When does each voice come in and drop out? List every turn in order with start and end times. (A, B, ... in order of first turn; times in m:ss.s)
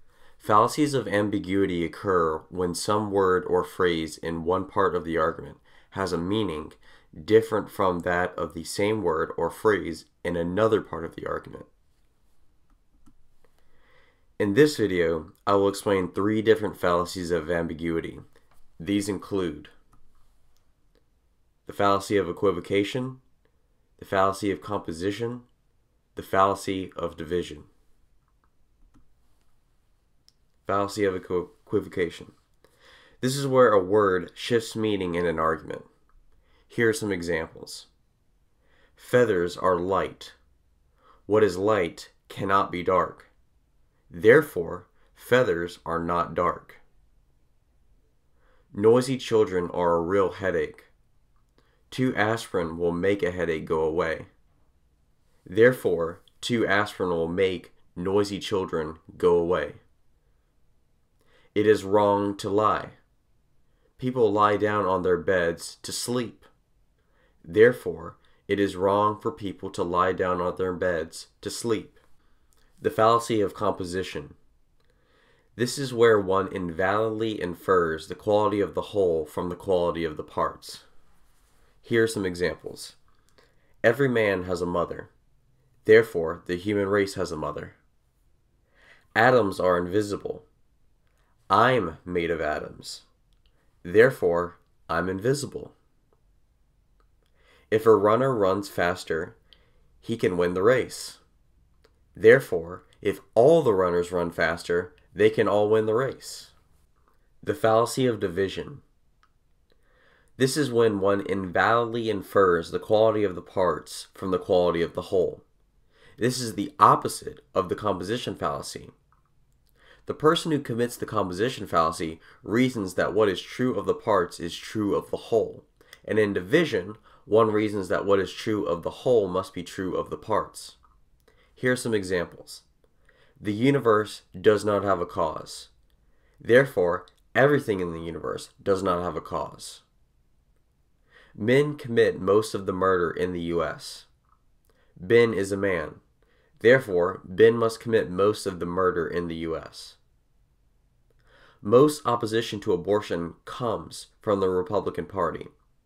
0:00.4-0:11.7 A
0:14.4-0:18.2 A
0:18.8-0:19.7 A
0:21.7-0:23.2 A
0:24.0-0:25.4 A
0:26.2-0:27.7 A
0:30.7-0:32.3 A
0:33.2-0:35.9 A
0:36.7-0:37.9 A
0:39.0-0:40.4 A
0:41.3-0:43.3 A
0:44.1-0:46.8 A
0:48.7-0:50.9 A
0:51.9-0:54.3 A
0:55.4-0:59.8 A
1:01.5-1:03.0 A
1:04.0-1:06.5 A
1:07.4-1:12.0 A
1:12.8-1:14.4 A
1:15.6-1:20.8 A
1:21.8-1:23.0 A
1:23.8-1:25.1 A
1:25.8-1:27.8 A
1:29.2-1:30.4 A
1:31.5-1:33.1 A
1:33.8-1:35.7 A
1:37.7-1:39.4 A
1:40.0-1:41.2 A
1:42.1-1:46.5 A
1:47.4-1:48.8 A
1:50.4-1:55.4 A
1:56.2-1:58.9 A
2:00.0-2:10.8 A
2:11.6-2:12.6 A
2:13.4-2:15.7 A
2:16.4-2:19.8 A
2:21.3-2:24.1 A
2:25.0-2:26.0 A
2:26.6-2:30.0 A
2:31.6-2:35.5 A